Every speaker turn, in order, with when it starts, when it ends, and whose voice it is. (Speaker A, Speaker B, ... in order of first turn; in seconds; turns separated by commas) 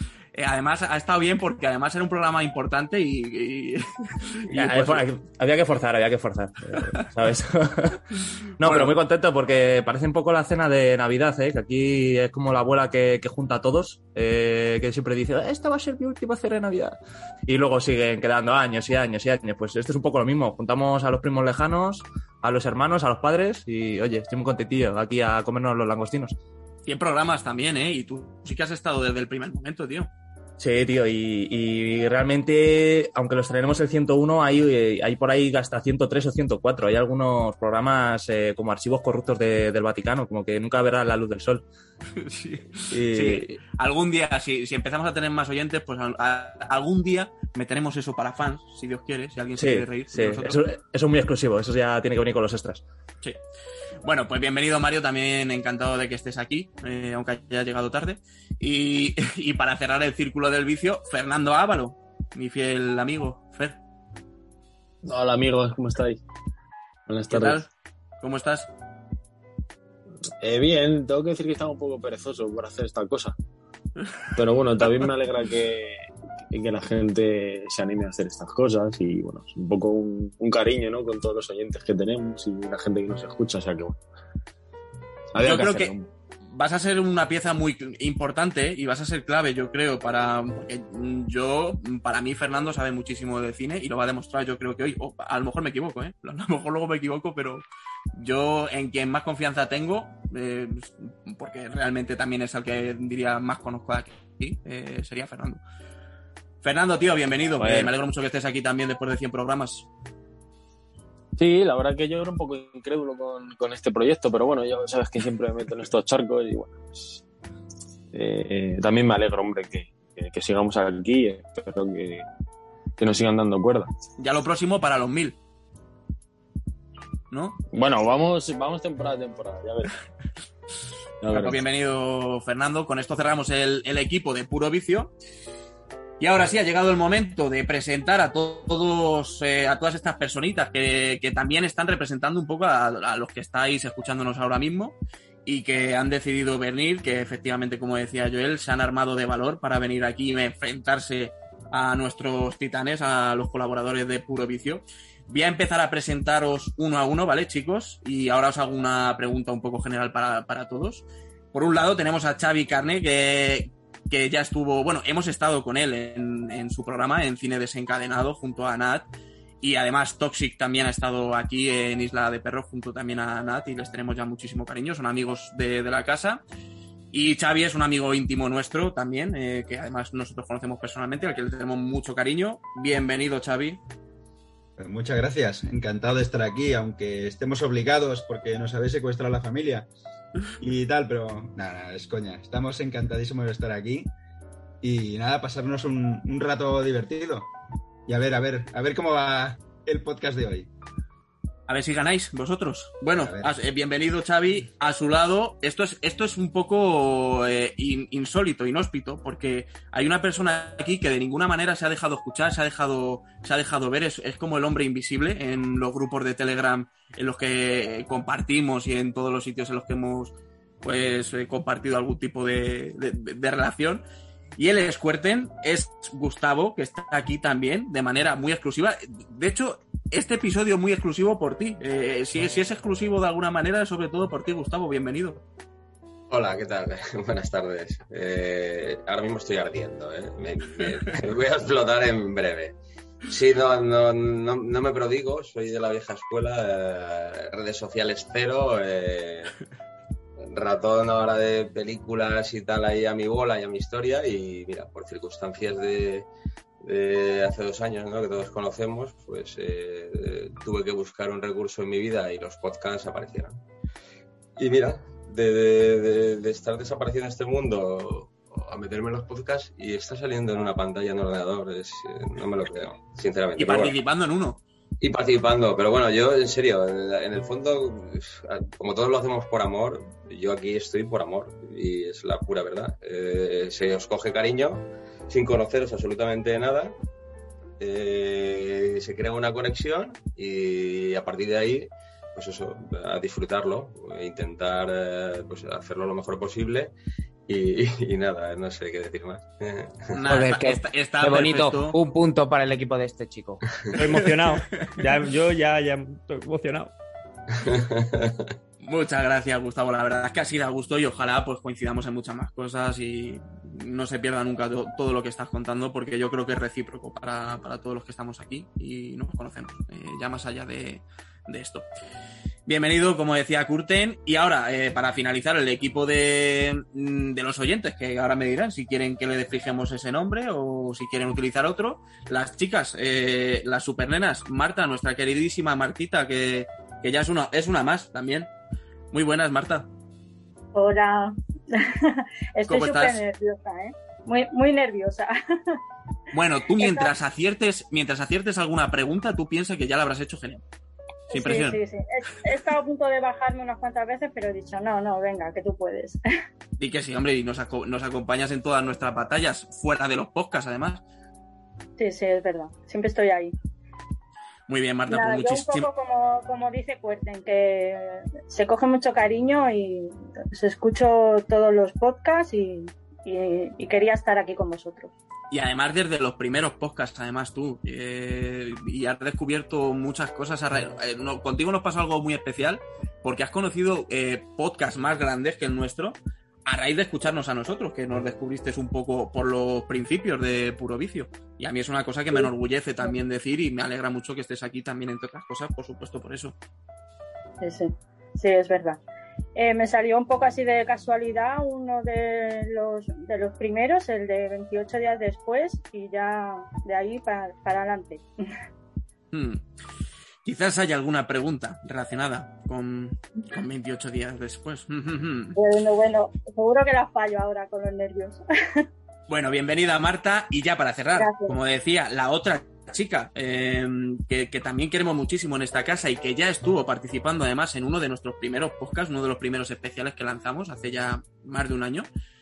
Speaker A: 0.3-5.0, Speaker B: 4.5-8.0, Speaker B: 8.6-26.4, Speaker A: 8.6-8.9, Speaker A: 26.9-30.1, Speaker B: 30.6-41.6, Speaker A: 42.2-50.6, Speaker B: 42.9-43.5, Speaker B: 49.6-52.8, Speaker A: 54.0-63.8, Speaker C: 65.0-66.2, Speaker C: 67.1-67.7, Speaker A: 67.3-67.7, Speaker A: 68.2-68.7, Speaker C: 70.4-73.3, Speaker C: 74.3-84.0, Speaker C: 85.3-86.1, Speaker A: 85.4-85.9, Speaker A: 86.5-105.6, Speaker A: 106.6-109.9, Speaker C: 107.6-107.9, Speaker C: 111.4-117.2, Speaker C: 118.1-122.2, Speaker C: 123.0-123.9, Speaker A: 124.2-125.4, Speaker A: 127.3-127.6, Speaker C: 127.7-130.0, Speaker C: 131.2-131.6, Speaker A: 131.3-135.1, Speaker A: 136.2-169.1, Speaker A: 169.6-176.4, Speaker A: 177.1-183.8, Speaker D: 184.8-189.9, Speaker D: 190.6-194.1, Speaker D: 194.8-197.5, Speaker D: 198.1-200.7, Speaker A: 201.7-224.0, Speaker D: 203.2-203.5, Speaker A: 224.6-235.4, Speaker E: 236.3-242.7, Speaker E: 243.3-249.5, Speaker E: 250.4-256.3, Speaker E: 256.8-263.6, Speaker E: 264.6-273.9, Speaker A: 273.6-274.6, Speaker E: 275.0-286.9, Speaker E: 287.8-296.9, Speaker E: 297.5-300.1, Speaker A: 300.1-302.0, Speaker F: 300.2-303.6, Speaker G: 303.9-306.9, Speaker E: 307.5-308.5, Speaker A: 308.8-321.9, Speaker A: 322.6-338.5, Speaker A: 339.1-339.9, Speaker H: 340.7-345.8, Speaker A: 342.7-343.2, Speaker A: 346.3-350.6, Speaker H: 346.8-347.1, Speaker A: 351.3-351.8, Speaker H: 351.3-356.2, Speaker A: 356.8-361.0, Speaker H: 362.0-363.5, Speaker A: 364.7-365.9, Speaker H: 365.1-375.1, Speaker A: 375.5-396.5, Speaker H: 397.6-399.0, Speaker H: 399.5-408.2, Speaker A: 409.3-409.6, Speaker A: 410.4-415.6, Speaker H: 415.5-418.8, Speaker A: 419.3-432.1, Speaker H: 421.2-421.5